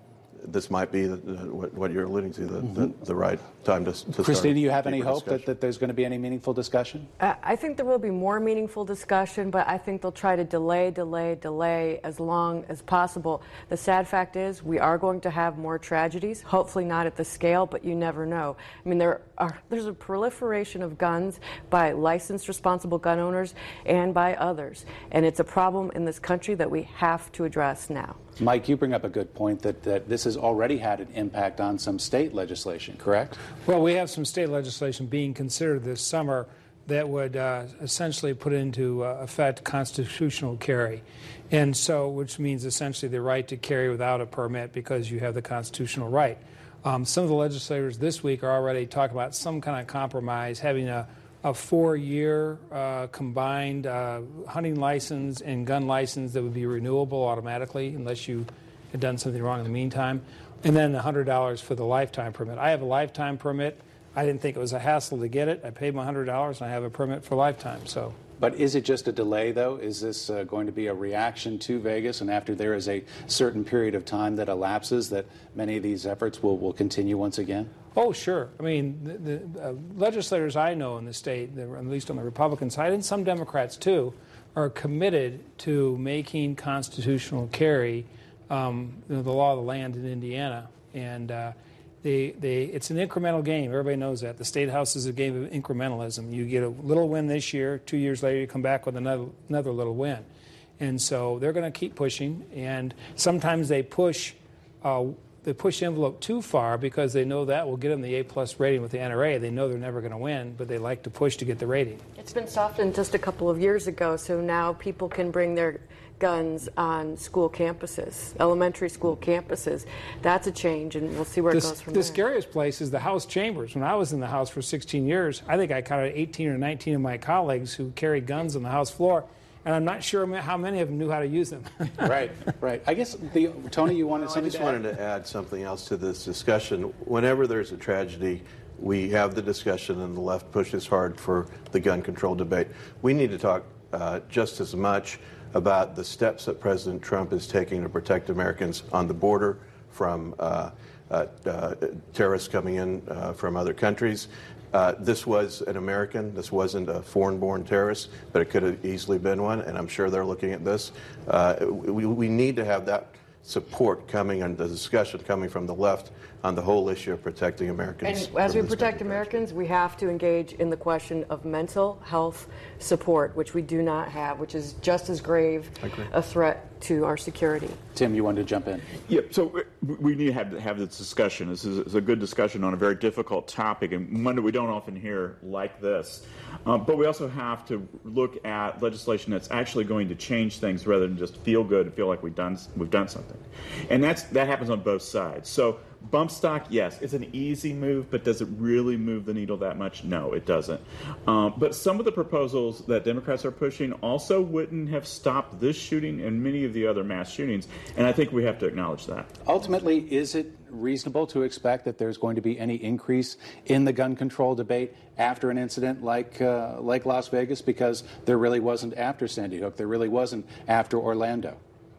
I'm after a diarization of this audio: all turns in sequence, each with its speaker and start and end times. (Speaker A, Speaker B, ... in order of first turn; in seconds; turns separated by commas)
Speaker A: 0.4-5.5, Speaker B: 2.6-2.9, Speaker B: 4.1-7.1, Speaker C: 7.2-28.2, Speaker B: 28.4-33.4, Speaker D: 33.6-68.2, Speaker B: 68.4-77.7, Speaker D: 77.9-100.3, Speaker D: 100.8-112.0, Speaker C: 112.2-122.2, Speaker D: 121.5-132.1, Speaker B: 132.0-134.8, Speaker A: 134.2-169.4, Speaker C: 168.0-177.8, Speaker A: 175.8-176.1, Speaker B: 177.9-178.8, Speaker E: 179.1-209.3, Speaker B: 209.4-221.6